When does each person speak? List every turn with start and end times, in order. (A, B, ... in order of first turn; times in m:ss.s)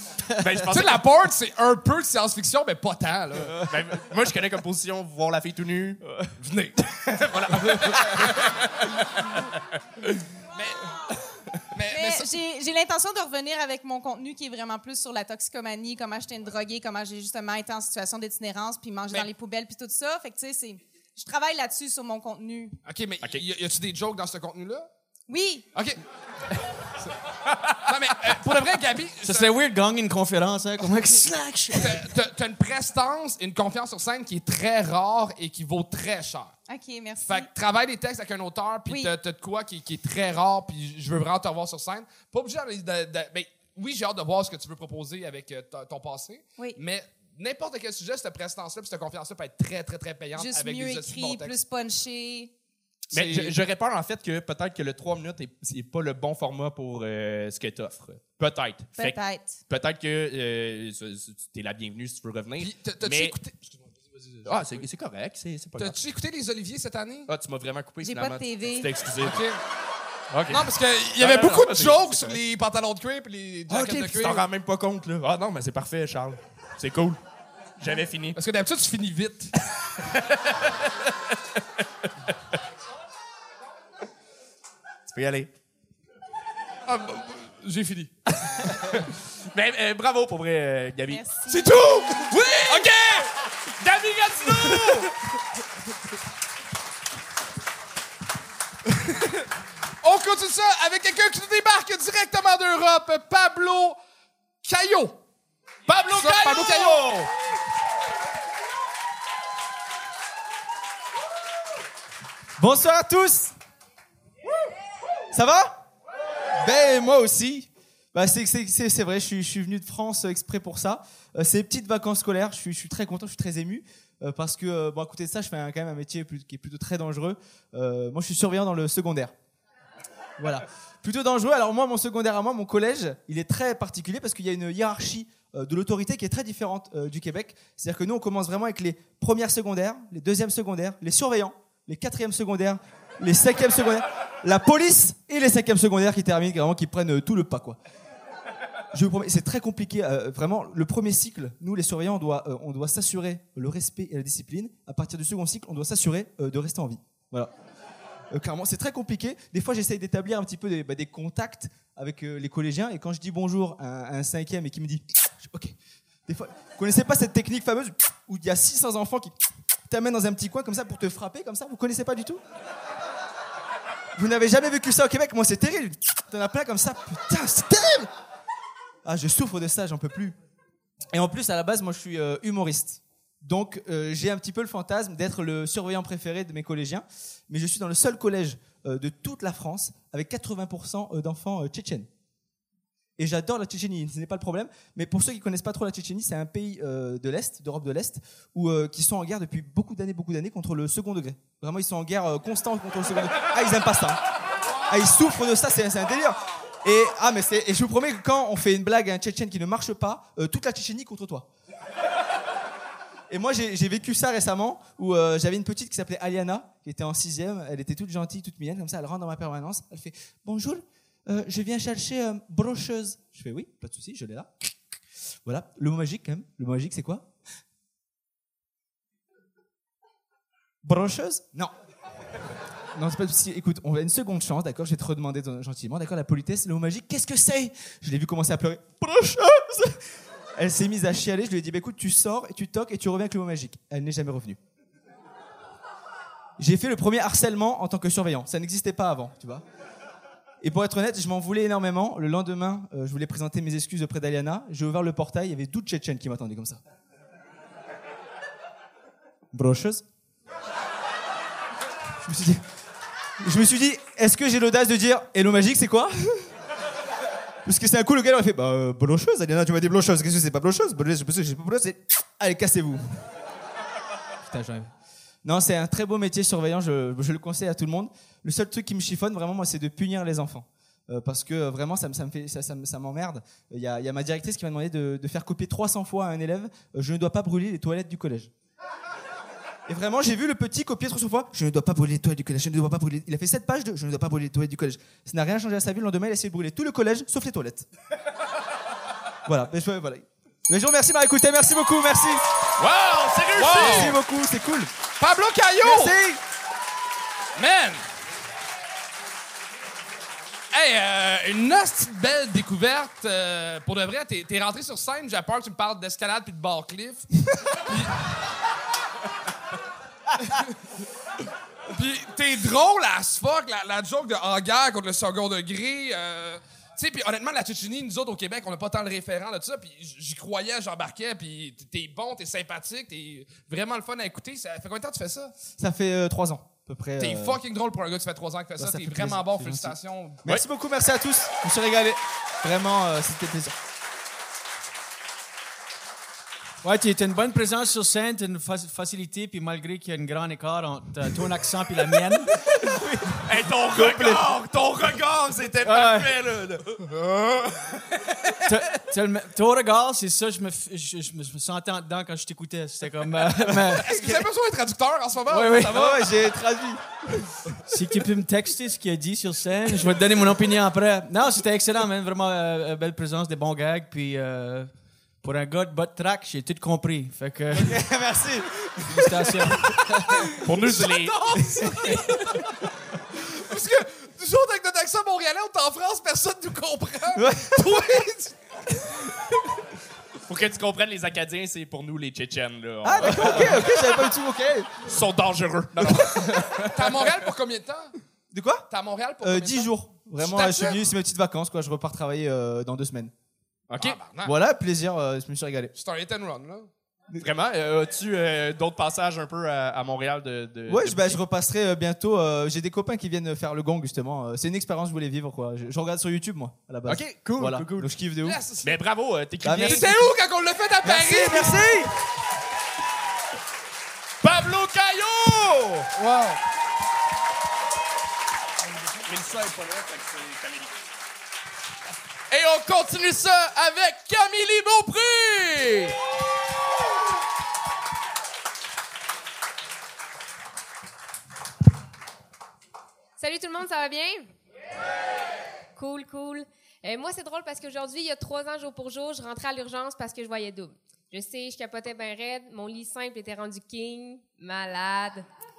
0:00.4-0:01.0 A
0:00.6-0:03.6 B
0:03.6-0:06.0 A
0:06.4-0:09.2 B
0:07.3-0:08.5 A
0:10.5-0:12.3 B
0:11.9-0:22.8 C
0:22.8-0:24.9 B
0:25.3-0:25.7 C
0:25.7-0:26.0 B
0:27.8-0:29.5 B
0:29.2-0:32.0 D
0:31.7-0:36.6 B
0:36.7-0:37.5 C
0:37.2-0:51.6 B
0:38.9-0:39.1 C
0:50.3-0:52.5 C
0:53.1-0:53.6 B
0:53.1-1:03.4 A
0:58.9-0:59.6 C
1:02.6-1:04.9 B
1:04.4-1:06.0 A
1:05.8-1:07.3 B
1:07.3-1:09.4 A
1:08.0-1:08.9 C
1:09.2-1:09.6 B
1:10.3-1:12.4 A
1:10.5-1:14.4 B
1:13.7-1:17.2 A
1:17.8-1:18.4 A
1:18.3-1:19.6 B
1:20.0-1:20.9 A
1:25.1-1:25.5 A
1:26.8-1:29.1 B
1:29.5-1:31.2 A
1:31.1-1:32.3 C
1:31.5-1:35.1 B
1:32.2-1:32.9 A
1:34.5-1:35.1 A
1:40.0-1:44.0 B
1:44.6-1:45.2 B
1:45.9-1:47.3 A
1:46.0-1:47.3 B
1:52.6-1:53.5 E
1:55.3-1:55.8 E
1:56.6-2:09.3 E
2:10.4-2:27.8 E
2:28.9-2:37.5 E
2:38.3-2:45.8 E
2:46.3-2:49.3 E
2:49.9-2:52.4 E
2:54.2-2:58.1 E
2:59.0-3:00.4 E
3:01.1-3:12.1 E
3:13.2-3:24.2 E
3:24.9-3:31.5 E
3:33.3-3:47.3 E
3:50.8-3:51.7 E
3:52.9-4:04.6 E
4:06.6-4:09.6 E
4:10.6-4:16.8 E
4:19.5-4:20.0 E
4:22.2-4:22.6 E
4:23.4-4:26.5 E
4:27.6-4:33.2 E
4:34.5-4:34.9 E
4:35.4-4:48.5 E
4:49.9-4:57.9 E
4:59.4-5:02.4 E
5:02.8-5:04.2 A
5:03.5-5:04.2 B
5:03.6-5:04.9 E
5:05.2-5:06.2 B
5:05.8-5:06.4 E
5:07.6-5:08.0 B
5:10.7-5:18.2 B
5:21.9-5:35.5 B
5:35.8-5:37.6 E
5:37.2-5:40.5 B
5:38.8-5:43.7 E
5:46.8-5:53.4 D
5:53.4-5:58.6 A
5:53.9-5:54.5 E
5:55.8-5:56.4 D
5:58.6-6:04.1 D
6:04.0-6:06.5 B
6:05.5-6:06.0 D
6:05.8-6:07.6 E
6:07.9-6:18.0 D
6:17.7-6:19.9 E
6:19.1-6:20.5 D
6:20.6-6:21.5 A
6:21.0-6:22.3 B
6:21.6-6:22.6 E
6:23.5-6:28.5 B
6:27.3-6:28.3 E
6:30.5-6:33.9 A
6:33.0-6:35.0 E
6:35.0-6:37.0 A
6:36.0-6:36.8 E
6:36.8-6:38.1 B
6:38.5-6:38.8 E
6:38.9-6:41.0 B
6:39.4-6:43.3 E
6:43.9-6:44.2 A
6:44.0-6:44.5 B
6:44.4-6:45.9 E
6:45.9-6:46.9 B
6:47.4-6:51.4 A
6:50.9-6:58.6 E
6:57.0-6:58.1 A
6:58.4-6:59.0 B
6:58.8-7:00.1 A
6:59.6-7:00.2 E
6:59.8-7:01.8 B
7:01.0-7:02.1 E
7:04.4-7:06.5 A
7:09.3-7:10.9 A
7:12.5-7:16.2 A
7:23.4-7:24.5 F
7:25.9-7:35.5 F